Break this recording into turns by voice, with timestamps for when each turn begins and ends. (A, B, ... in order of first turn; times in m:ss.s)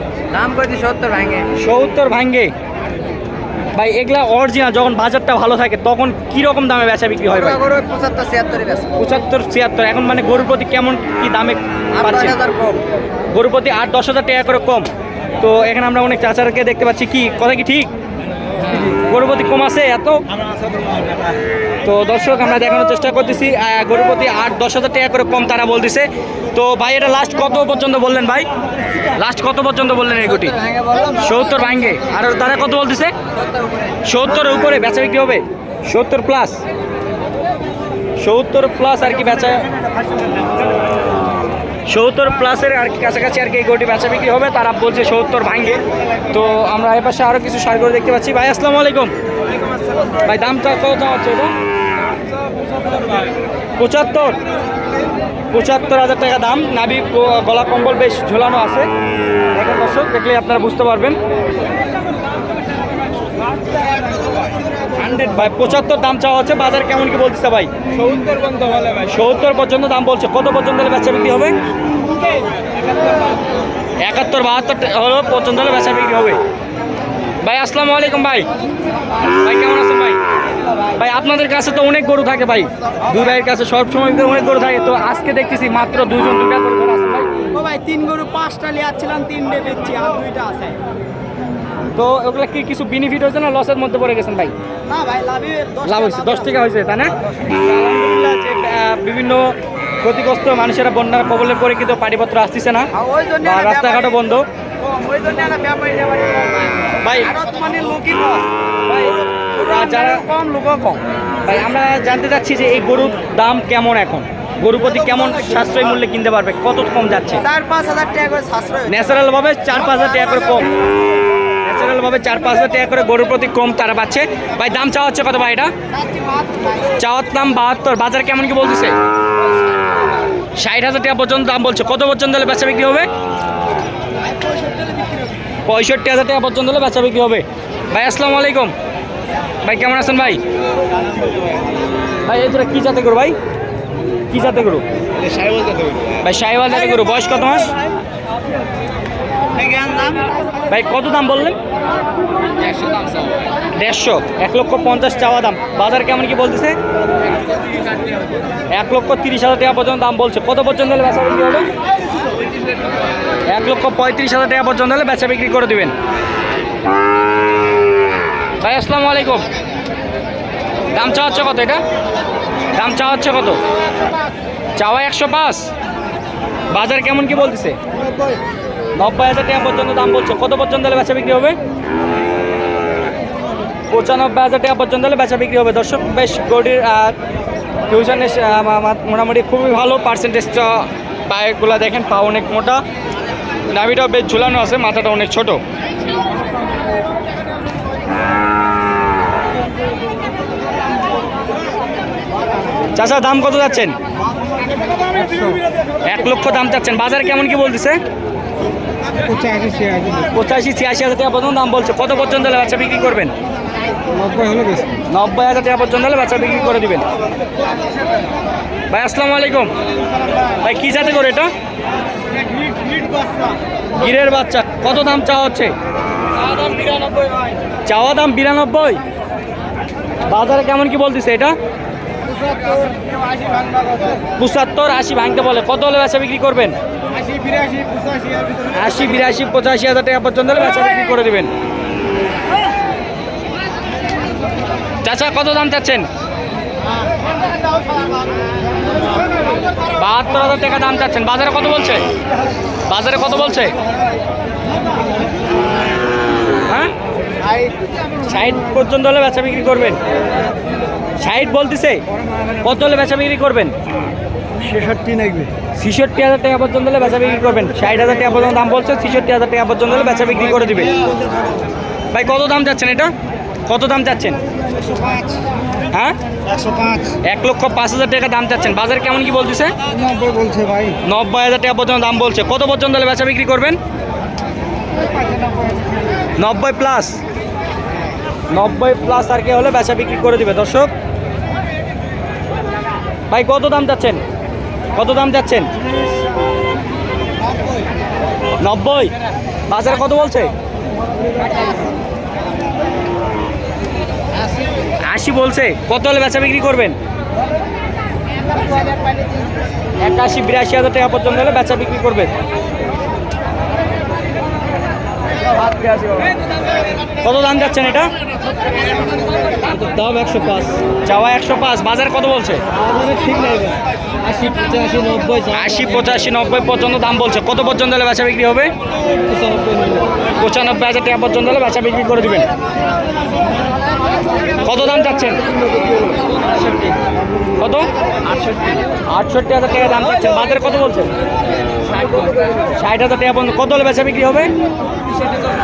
0:00.3-0:01.5 A
0:01.5-0:02.5 B
0:03.7-0:07.6 B
0:07.3-0:08.9 A
0:09.0-0:12.4 B
0:11.9-0:12.8 A
0:13.3-0:14.9 B
0:15.4-0:17.9 B
0:18.8-0:20.2 B
0:21.8-0:28.5 B
0:29.1-0:30.6 B
0:30.2-0:32.0 A
0:31.2-0:33.1 B
0:33.3-0:34.0 A
0:34.0-0:36.6 B
0:38.2-0:39.6 B
0:41.9-0:45.8 B
0:46.3-0:49.1 B
0:50.2-0:51.5 B
0:53.8-0:54.4 B
0:55.5-0:58.9 B
0:59.5-1:01.2 B
1:05.0-1:07.7 B
1:08.2-1:08.9 C
1:09.0-1:11.5 B
1:14.0-1:16.4 B
1:17.4-1:18.5 B
1:19.4-1:20.2 B
1:21.0-1:27.3 B
1:27.5-1:30.8 A
1:32.0-1:34.5 B
1:34.9-1:36.6 A
1:35.8-1:42.9 B
1:42.9-1:44.2 A
1:43.4-1:44.4 B
1:44.8-1:48.5 A
1:47.0-1:47.3 B
1:48.9-1:50.2 B
1:49.3-1:51.0 A
1:51.4-1:57.4 B
1:57.4-1:59.2 A
1:58.9-2:00.7 B
1:59.7-2:00.7 A
2:01.6-2:05.7 B
2:06.0-2:06.7 A
2:07.0-2:08.9 B
2:10.6-2:13.1 B
2:15.6-2:18.7 B
2:19.6-2:20.4 B
2:22.2-2:23.4 B
2:24.3-2:24.8 B
2:26.2-2:27.7 B
2:29.6-2:30.2 A
2:30.7-2:31.6 B
2:33.7-2:36.8 B
2:38.7-2:41.7 B
2:43.5-2:45.9 B
2:48.6-2:49.4 B
2:50.9-2:51.8 B
2:52.7-2:53.6 B
2:54.8-2:55.7 B
2:56.7-2:57.8 B
2:58.9-3:01.6 B
3:03.9-3:07.2 B
3:07.9-3:12.8 B
3:13.7-3:15.6 B
3:22.9-3:24.0 B
3:26.0-3:28.0 B
3:29.2-3:30.3 C
3:30.3-3:33.3 B
3:34.1-3:35.0 C
3:35.1-3:37.0 B
3:38.9-3:39.7 B
3:40.5-3:41.5 B
3:43.9-3:45.7 B
3:47.8-3:49.0 B
3:50.3-3:51.5 B
3:54.4-3:56.7 B
3:57.4-3:58.6 C
3:58.7-4:01.5 B
4:05.0-4:06.1 B
4:09.9-4:12.0 B
4:12.9-4:13.7 B
4:18.2-4:20.0 B
4:21.2-4:22.0 B
4:22.6-4:23.7 B
4:24.7-4:25.5 C
4:25.7-4:31.0 B
4:32.1-4:33.1 B
4:33.7-4:34.4 B
4:35.9-4:36.2 B
4:36.5-4:37.1 C
4:37.2-4:39.7 B
4:39.9-4:41.0 C
4:41.0-4:43.8 B
4:45.4-4:45.7 C
4:46.4-4:47.2 B
4:48.5-4:50.9 B
4:53.3-4:54.2 B
4:54.9-4:55.7 B
4:58.6-4:59.1 B
4:59.7-5:00.5 B
5:05.0-5:07.0 B
5:10.0-5:12.3 B
5:17.2-5:18.1 B
5:19.8-5:22.6 B
5:23.0-5:23.8 C
5:24.4-5:25.5 C
5:25.5-5:28.7 B
5:29.5-5:30.0 C
5:30.4-5:32.4 B
5:34.6-5:35.4 B
5:37.6-5:37.9 B
5:39.1-5:41.1 B
5:42.7-5:44.5 B